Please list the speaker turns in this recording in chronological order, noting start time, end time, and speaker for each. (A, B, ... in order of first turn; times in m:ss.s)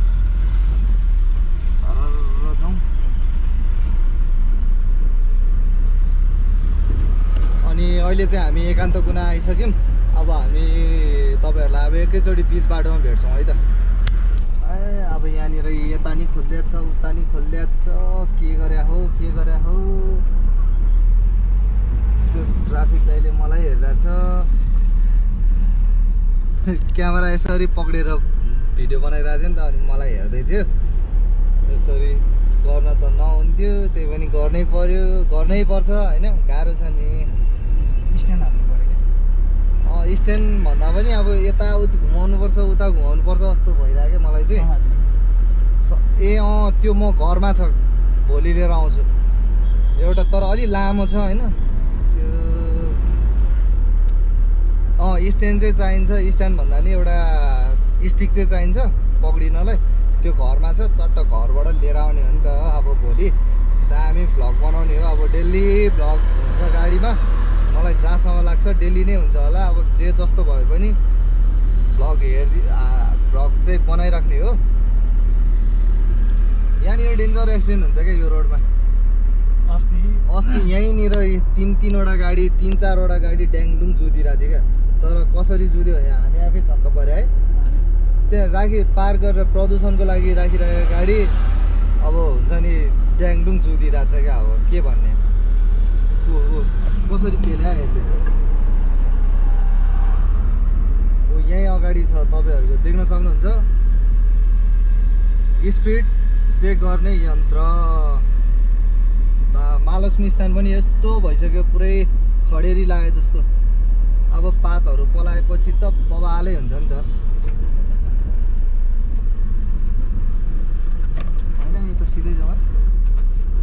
0:01.6-0:02.9 A
0:07.6-0:13.6 A
0:14.6-0:20.3 A
0:22.2-0:24.5 A
0:26.6-0:30.7 A
0:31.6-0:37.3 A
0:38.1-0:39.0 B
0:39.8-0:44.7 A
0:44.4-0:45.1 B
0:45.8-0:49.1 A
0:49.9-0:51.6 A
0:52.1-0:53.0 A
0:55.0-1:11.0 A
1:11.9-1:14.6 A
1:16.8-1:18.6 A
1:19.6-1:20.6 B
1:20.2-1:27.3 A
1:27.5-1:27.9 B
1:28.3-1:31.3 A
1:32.0-1:35.2 A
1:36.2-1:38.2 A
1:41.3-1:43.7 A
1:45.6-1:48.2 A
1:49.5-1:53.5 A
1:54.3-1:57.1 A
2:01.6-2:02.6 A